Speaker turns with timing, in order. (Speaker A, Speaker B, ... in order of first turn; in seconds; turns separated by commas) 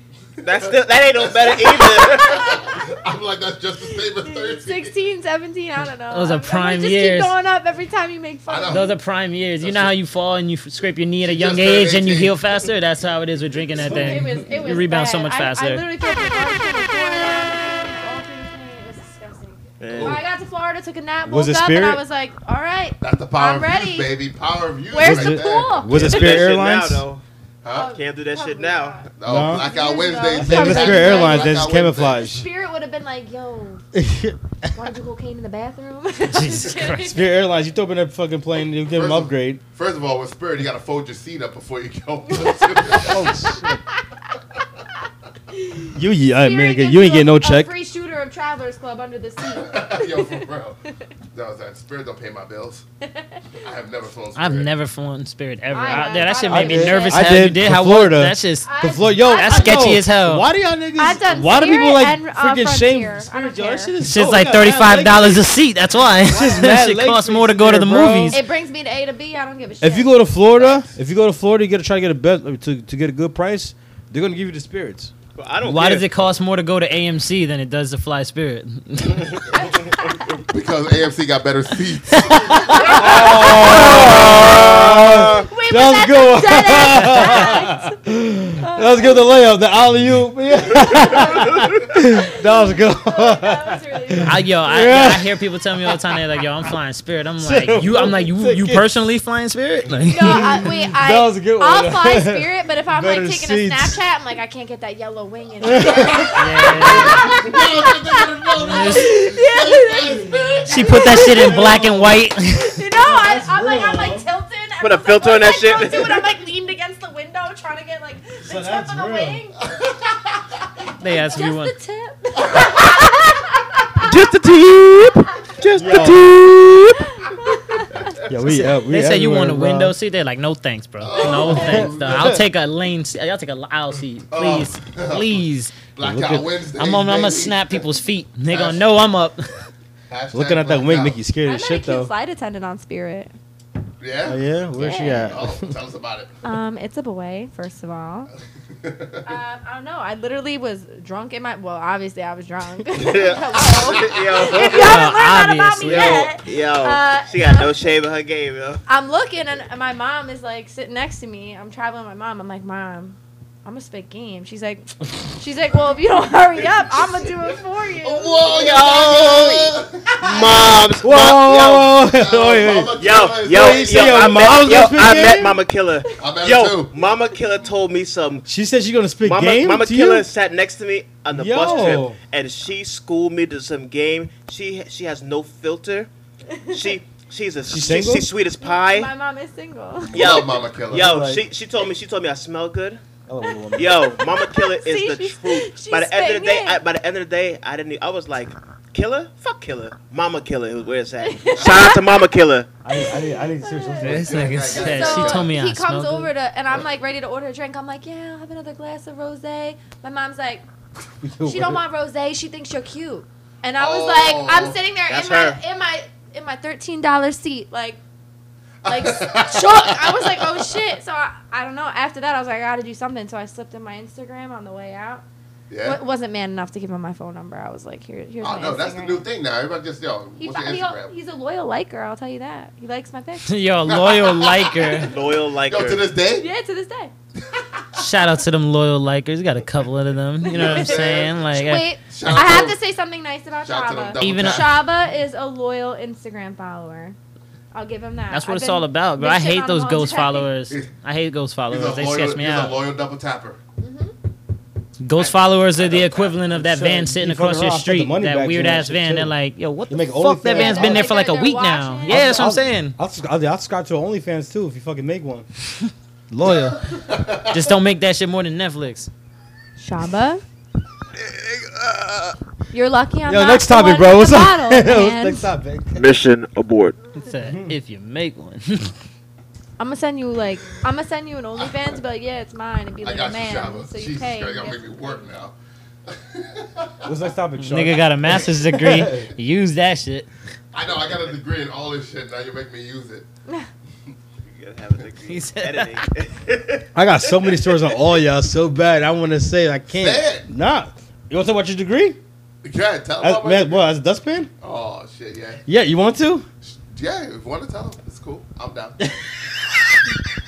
Speaker A: 0.4-2.5, Speaker B: 0.5-5.0, Speaker C: 1.8-2.8, Speaker C: 3.9-9.0, Speaker D: 6.1-7.3, Speaker B: 8.5-9.0, Speaker D: 8.7-15.9, Speaker B: 9.6-9.9, Speaker B: 11.2-12.4, Speaker C: 13.8-24.1, Speaker A: 19.8-20.2, Speaker B: 19.9-20.3, Speaker E: 21.2-22.0, Speaker B: 23.0-26.4, Speaker C: 24.9-26.4, Speaker E: 25.0-27.1, Speaker A: 26.0-27.2, Speaker B: 27.6-28.0, Speaker C: 27.7-33.8, Speaker A: 27.8-29.1, Speaker B: 29.2-32.3, Speaker E: 29.3-29.7, Speaker E: 30.4-32.5, Speaker E: 33.9-34.7, Speaker C: 34.7-37.2, Speaker D: 36.2-37.2, Speaker E: 37.0-39.6, Speaker B: 38.9-43.4, Speaker C: 42.3-43.8, Speaker E: 43.0-43.8, Speaker C: 45.5-50.5, Speaker E: 45.9-47.7, Speaker B: 49.4-50.8, Speaker B: 51.3-52.9, Speaker C: 53.0-53.4, Speaker B: 53.6-54.7, Speaker D: 54.4-60.5, Speaker C: 55.7-57.5, Speaker E: 56.5-65.5, Speaker C: 58.6-60.1, Speaker C: 61.0-63.9, Speaker D: 64.0-68.4, Speaker E: 66.2-68.4, Speaker C: 68.3-70.3, Speaker E: 69.8-75.1, Speaker B: 70.6-70.9, Speaker A: 75.4-76.1, Speaker D: 75.6-79.4, Speaker A: 79.1-79.4, Speaker C: 79.5-80.2, Speaker B: 80.5-83.1, Speaker D: 82.3-82.8, Speaker C: 82.7-84.2, Speaker E: 82.9-96.0, Speaker A: 83.1-85.5, Speaker C: 85.5-88.0, Speaker C: 88.6-89.2, Speaker C: 92.2-94.6, Speaker D: 94.2-100.6, Speaker E: 97.4-99.0, Speaker C: 100.1-111.7, Speaker E: 100.2-104.0, Speaker E: 105.6-107.3, Speaker B: 105.9-111.0, Speaker D: 106.4-107.3, Speaker D: 108.6-109.2, Speaker D: 110.7-112.8, Speaker E: 111.3-112.3, Speaker C: 112.6-119.6, Speaker E: 112.9-114.3, Speaker A: 114.8-116.3, Speaker E: 118.4-119.5, Speaker D: 121.0-121.8, Speaker C: 121.1-123.8, Speaker B: 122.4-122.8, Speaker A: 124.0-127.2, Speaker E: 125.8-126.3, Speaker C: 127.2-128.2, Speaker E: 128.3-130.0, Speaker D: 128.4-135.8, Speaker B: 131.0-132.4, Speaker E: 131.2-132.4, Speaker B: 134.3-137.9, Speaker E: 136.0-136.6, Speaker D: 136.8-139.6, Speaker B: 138.5-138.9, Speaker B: 140.1-141.3, Speaker E: 140.3-142.1, Speaker C: 141.4-143.3, Speaker B: 144.0-146.4, Speaker E: 144.2-145.8, Speaker C: 144.8-145.3, Speaker C: 146.4-148.3, Speaker B: 148.8-149.4, Speaker C: 149.2-157.8, Speaker A: 153.0-155.1, Speaker B: 153.5-154.8, Speaker D: 154.7-156.3, Speaker A: 155.8-158.8, Speaker C: 158.9-168.5, Speaker B: 166.6-167.5, Speaker B: 168.0-170.7, Speaker A: 168.5-172.0, Speaker E: 171.0-175.6, Speaker B: 172.1-174.8, Speaker A: 173.0-178.5, Speaker B: 176.2-176.9, Speaker E: 178.5-180.3, Speaker A: 179.2-186.1, Speaker E: 181.3-182.2, Speaker C: 181.7-182.0, Speaker C: 186.5-187.0, Speaker A: 186.7-189.1, Speaker E: 187.7-188.3, Speaker C: 188.6-190.5, Speaker B: 190.0-191.1, Speaker A: 190.1-193.0, Speaker E: 190.9-191.5, Speaker E: 193.3-194.0, Speaker A: 193.8-202.7, Speaker C: 193.9-196.8, Speaker C: 201.2-202.0, Speaker E: 202.8-204.6, Speaker C: 202.9-210.6, Speaker D: 204.0-206.3, Speaker B: 204.1-205.5, Speaker E: 211.2-211.8, Speaker C: 211.4-218.0, Speaker B: 213.8-214.8, Speaker A: 215.1-215.6, Speaker B: 218.8-220.7, Speaker C: 218.9-225.2, Speaker B: 225.7-226.0, Speaker C: 225.8-229.3, Speaker B: 228.4-231.1, Speaker C: 230.4-233.5, Speaker D: 233.5-235.1, Speaker B: 233.8-236.5, Speaker A: 235.1-236.1, Speaker C: 236.2-237.1, Speaker B: 237.5-238.0, Speaker D: 238.0-242.6, Speaker C: 240.5-247.2, Speaker B: 240.5-241.5, Speaker B: 242.1-242.8, Speaker B: 243.6-244.8, Speaker D: 244.2-244.7, Speaker C: 247.7-250.6, Speaker D: 248.3-252.8, Speaker B: 251.7-253.6, Speaker C: 253.8-254.1, Speaker D: 255.0-263.0, Speaker B: 255.2-256.4, Speaker E: 256.5-259.4, Speaker E: 259.9-261.1, Speaker C: 260.5-262.4, Speaker E: 262.1-265.5, Speaker D: 265.8-266.8, Speaker E: 266.3-266.7, Speaker B: 266.9-267.6, Speaker D: 267.4-269.1, Speaker C: 269.8-270.4, Speaker B: 271.3-272.3, Speaker C: 272.7-275.5, Speaker E: 273.3-276.1, Speaker A: 275.9-277.0, Speaker D: 277.1-278.9, Speaker E: 277.5-277.8, Speaker C: 279.8-285.4, Speaker B: 281.6-281.9, Speaker B: 283.0-285.5, Speaker B: 286.1-287.1, Speaker E: 287.0-289.3, Speaker D: 287.6-290.3, Speaker B: 290.7-293.3, Speaker A: 294.4-297.9, Speaker D: 295.3-296.1, Speaker E: 296.9-302.2, Speaker B: 299.9-300.5, Speaker B: 302.6-303.9, Speaker E: 303.2-304.5, Speaker B: 304.6-305.6, Speaker E: 305.7-306.5, Speaker B: 306.9-309.0, Speaker E: 309.0-309.4